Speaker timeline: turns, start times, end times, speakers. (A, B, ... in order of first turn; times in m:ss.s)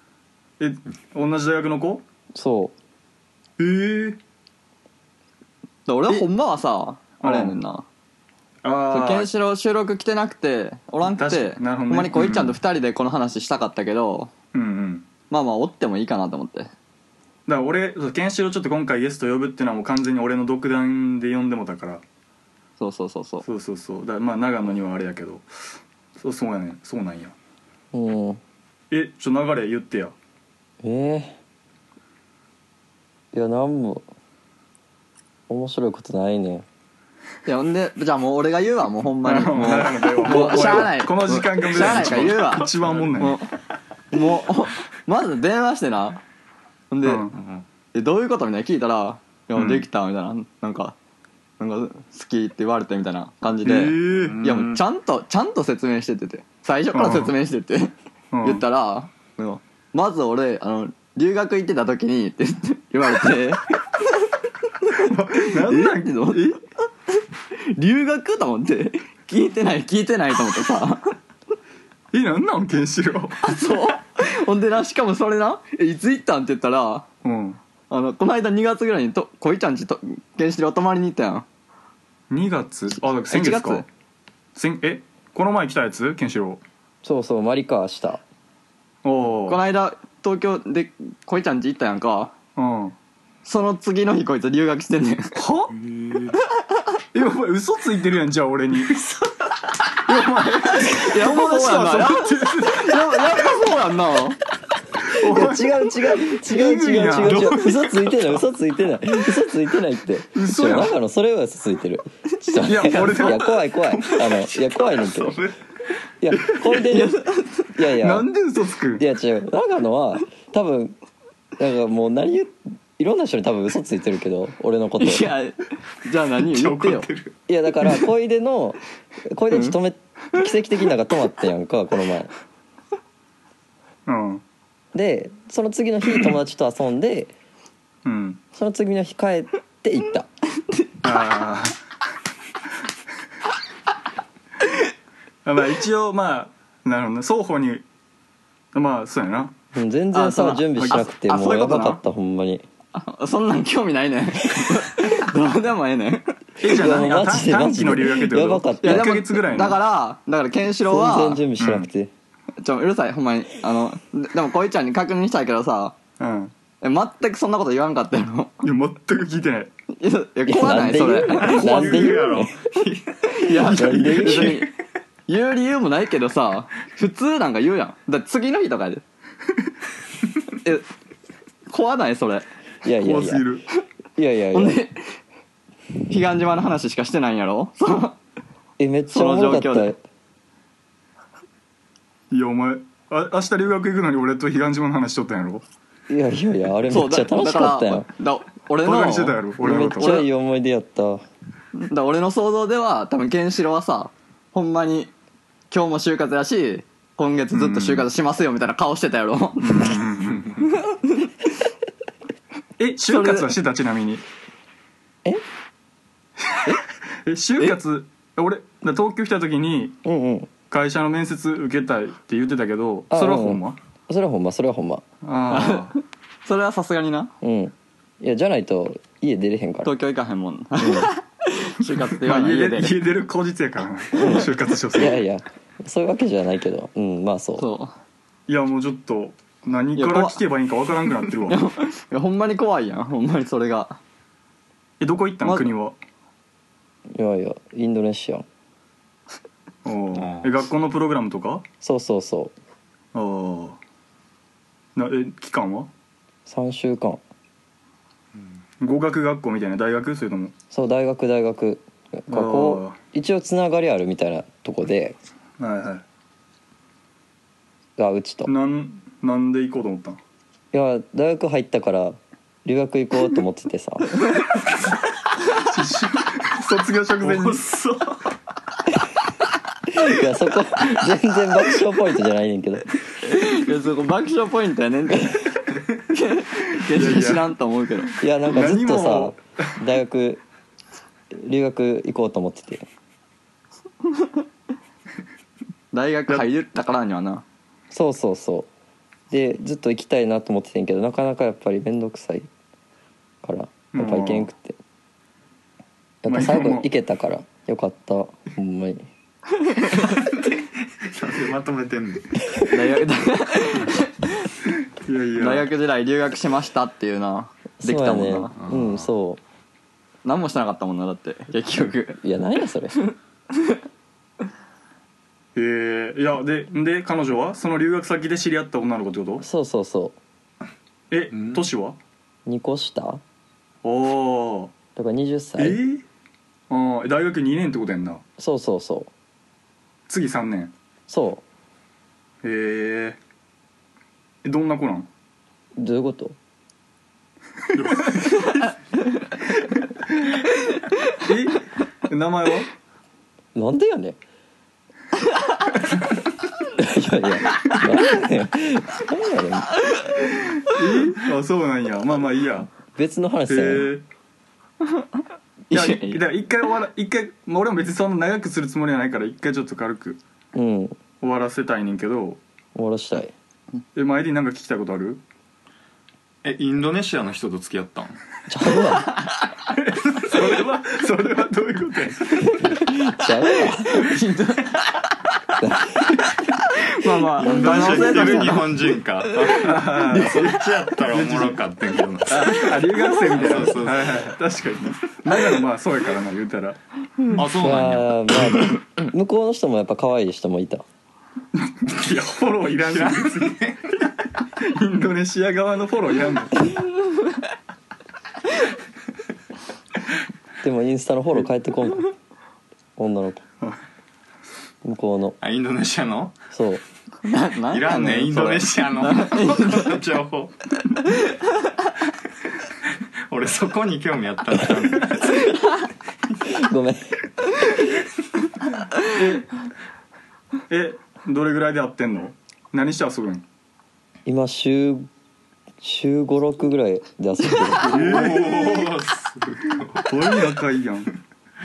0:00.6-0:02.0 A
0:02.3-0:02.7 B
0:03.6-0:04.2 A
0:05.9-0:07.8 C
0:07.2-0:07.6 A
0:08.6-0:09.3 A
0:08.9-0:14.3 C
0:11.1-0:12.4 A
0:12.1-0:12.5 D
0:14.5-0:15.1 A
0:15.3-0:16.7 C
0:17.5-0:22.0 A
0:22.8-0:23.4 C
0:23.4-0:25.5 A
0:26.2-0:27.3 A
0:27.9-0:28.4 B
0:28.9-0:30.1 A
0:30.8-0:31.4 B
0:33.3-0:34.0 B
0:35.5-0:36.6 B
0:37.4-0:43.5 C
0:39.2-0:43.4 A
0:41.8-0:43.1 D
0:44.1-0:46.2 C
0:46.9-0:47.3 C
0:47.0-0:47.4 A
0:47.3-0:47.6 D
0:47.9-0:51.0 C
0:49.5-0:49.8 A
0:51.6-0:57.9 C
0:53.6-0:54.4 A
0:54.1-0:54.8 D
0:56.9-0:57.3 A
0:58.3-0:58.6 A
0:58.4-1:03.6 C
1:04.8-1:06.6 C
1:05.0-1:06.6 A
1:07.1-1:11.2 C
1:12.1-1:13.5 A
1:13.4-1:17.0 C
1:17.2-1:17.6 A
1:17.9-1:21.4 C
1:22.3-1:23.8 A
1:23.3-1:23.8 C
1:24.5-1:26.6 A
1:27.0-1:28.2 B
1:29.0-1:29.6 A
1:29.5-1:32.3 C
1:32.6-1:33.0 A
1:33.4-1:35.4 C
1:35.4-1:35.7 A
1:35.8-1:36.4 D
1:37.1-1:39.0 A
1:38.9-1:39.3 D
1:40.1-1:43.4 A
1:40.3-1:44.4 C
1:45.1-1:47.7 A
1:45.2-1:55.4 B
1:47.4-1:48.0 D
1:50.3-1:50.9 A
1:52.5-1:53.2 C
1:52.6-1:53.5 A
1:54.0-1:55.6 D
1:56.2-1:57.2 B
1:56.7-1:57.7 C
1:57.7-1:58.3 B
1:58.0-1:59.0 A
1:59.0-2:01.0 B
2:01.6-2:05.3 B
2:05.0-2:07.1 C
2:06.5-2:07.3 D
2:07.5-2:12.3 B
2:09.5-2:09.8 C
2:14.0-2:14.4 A
2:14.9-2:17.3 B
2:18.0-2:18.4 A
2:18.5-2:20.3 B
2:21.0-2:21.8 A
2:25.4-2:27.8 A
2:28.7-2:29.5 A
2:29.7-2:32.6 B
2:30.1-2:32.0 C
2:30.8-2:31.0 A
2:32.9-2:36.4 C
2:36.6-2:39.8 A
2:36.6-2:39.2 B
2:38.8-2:41.4 C
2:40.9-2:42.1 B
2:41.6-2:41.9 A
2:42.6-2:45.9 C
2:46.2-2:46.5 A
2:46.8-2:48.6 C
2:48.6-2:49.7 A
2:50.0-2:52.0 C
2:50.5-2:52.7 B
2:51.3-2:54.6 D
2:53.3-2:54.7 C
2:53.6-2:54.7 B
2:55.3-2:59.0 C
3:01.7-3:02.4 C
3:02.8-3:03.4 B
3:03.0-3:03.6 A
3:04.2-3:04.8 B
3:04.5-3:05.2 C
3:06.1-3:08.2 C
3:08.8-3:10.0 B
3:09.1-3:09.9 C
3:12.3-3:15.6 A
3:16.1-3:18.1 B
3:16.9-3:19.4 C
3:18.8-3:20.2 A
3:19.6-3:21.2 B
3:20.0-3:20.2 C
3:21.8-3:25.1 C
3:25.7-3:30.0 C
3:27.5-3:28.0 A
3:29.6-3:30.6 A
3:30.7-3:31.2 C
3:32.8-3:34.2 A
3:33.1-3:33.5 C
3:37.2-3:40.0 A
3:40.0-3:40.5 B
3:40.7-3:43.8 A
3:43.1-3:45.0 B
3:45.2-3:46.0 A
3:45.5-3:47.3 C
3:47.4-3:49.9 B
3:49.8-3:53.0 C
3:50.8-3:51.1 B
3:52.2-3:55.2 A
3:54.2-3:57.6 B
3:57.6-3:58.0 C
3:58.5-4:01.6 A
3:59.9-4:00.4 C
4:01.5-4:04.0 C
4:05.0-4:06.0 A
4:05.4-4:05.7 C
4:07.1-4:08.4 B
4:09.8-4:11.6 A
4:10.1-4:10.5 D
4:11.8-4:12.5 B
4:13.1-4:13.8 A
4:15.0-4:15.9 A
4:16.4-4:17.2 B
4:18.8-4:20.5 A
4:20.7-4:25.2 B
4:22.3-4:23.0 A
4:25.6-4:26.0 A
4:28.0-4:28.5 B
4:28.4-4:30.2 A
4:30.7-4:34.2 B
4:35.5-4:37.7 A
4:37.2-4:38.2 D
4:39.9-4:42.9 B
4:43.2-4:45.5 C
4:46.0-4:48.1 C
4:46.9-4:47.5 A
4:48.2-4:50.4 B
4:48.5-4:49.4 A
4:51.3-4:52.8 B
4:55.9-4:57.4 C
4:57.9-4:58.7 B
4:59.3-5:02.5 B
5:03.4-5:04.8 B
5:03.9-5:04.5 A
5:06.2-5:09.0 B
5:06.3-5:06.9 A
5:09.7-5:10.0 C
5:10.0-5:12.5 D
5:12.7-5:14.5 C
5:15.0-5:15.7 A
5:15.4-5:18.5 C
5:17.8-5:19.4 B
5:18.6-5:19.1 D
5:20.2-5:22.2 C
5:22.2-5:22.9 B
5:23.1-5:23.8 C
5:25.6-5:29.4 A
5:29.4-5:30.2 B
5:31.1-5:32.0 A
5:32.4-5:33.2 B
5:33.8-5:34.7 A
5:35.0-5:35.8 B
5:35.6-5:36.0 A
5:36.7-5:38.2 A
5:38.4-5:39.1 B
5:40.1-5:40.7 A
5:41.1-5:41.4 B
5:42.4-5:43.2 A
5:44.4-5:45.1 A
5:45.8-5:46.4 B
5:47.7-5:48.7 A
5:51.2-5:52.7 A
5:53.5-5:54.2 B
5:56.8-5:59.7 B
6:00.6-6:02.7 A
6:02.9-6:03.9 B
6:03.5-6:04.0 A
6:05.7-6:06.2 C
6:05.7-6:10.2 A
6:10.5-6:11.0 B
6:11.2-6:12.4 A
6:12.7-6:13.3 B
6:13.9-6:15.2 A
6:16.4-6:18.2 D
6:18.5-6:19.1 B
6:19.9-6:22.6 A
6:22.6-6:24.1 B
6:23.5-6:25.1 C
6:25.6-6:26.1 B
6:26.7-6:30.4 C
6:27.4-6:34.4 D
6:27.5-6:28.6 A
6:29.4-6:31.6 A
6:32.2-6:36.8 A
6:37.3-6:38.8 D
6:37.6-6:40.8 B
6:41.6-6:43.6 A
6:42.8-6:43.9 D
6:44.6-6:46.7 A
6:50.6-6:52.1 B
6:53.0-6:53.4 B
6:54.8-6:55.4 B
6:55.4-6:56.4 D
6:56.5-6:56.8 B
6:57.2-6:59.9 C
6:57.7-7:00.6 D
7:03.3-7:05.6 D
7:06.5-7:07.2 B
7:09.0-7:09.5 A
7:10.7-7:13.4 A
7:14.2-7:15.1 B
7:15.8-7:18.1 B
7:17.8-7:18.9 A
7:17.8-7:20.4 D
7:19.9-7:21.1 A